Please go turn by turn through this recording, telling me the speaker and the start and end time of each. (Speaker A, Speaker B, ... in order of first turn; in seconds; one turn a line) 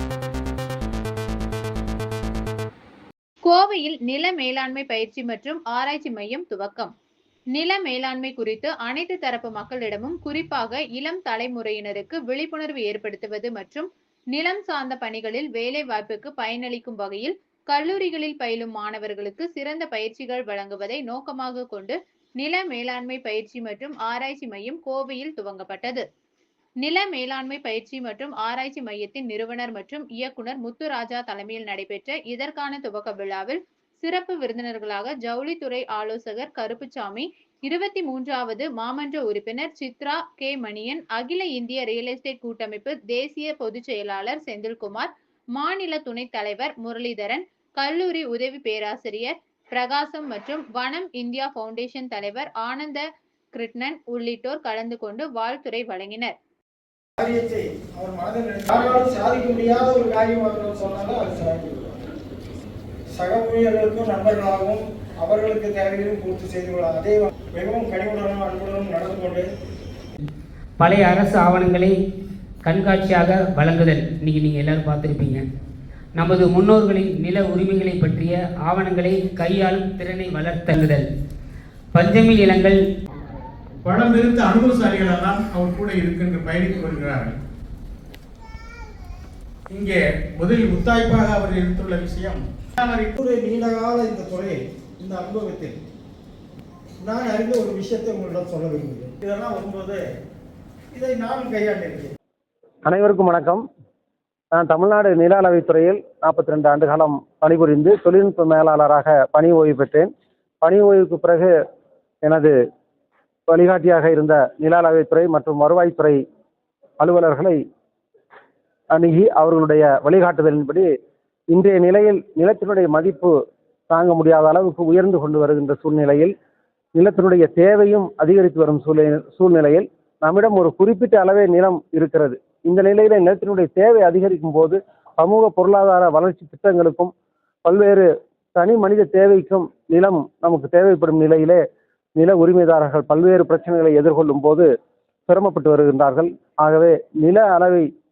Speaker A: 3.4-6.9
Speaker A: 7.5-26.1
Speaker A: 26.8-56.3
Speaker B: 57.2-62.0
Speaker B: 63.1-69.5
Speaker C: 70.8-72.0
Speaker C: 72.6-75.5
Speaker C: 76.2-81.1
Speaker C: 81.9-82.8
Speaker D: 83.8-87.4
Speaker D: 89.7-93.1
Speaker B: 93.2-95.8
Speaker B: 97.0-100.0
Speaker B: 100.9-102.1
Speaker E: 102.9-103.6
Speaker E: 104.6-110.1
Speaker E: 110.6-111.5
Speaker E: 112.3-112.5
Speaker E: 113.5-116.2
Speaker E: 117.0-117.6
Speaker E: 119.0-120.8
Speaker E: 121.5-123.3
Speaker E: 123.9-126.3
Speaker E: 127.0-137.1
Speaker E: 137.7-141.6
Speaker E: 142.2-144.7
Speaker E: 145.3-147.8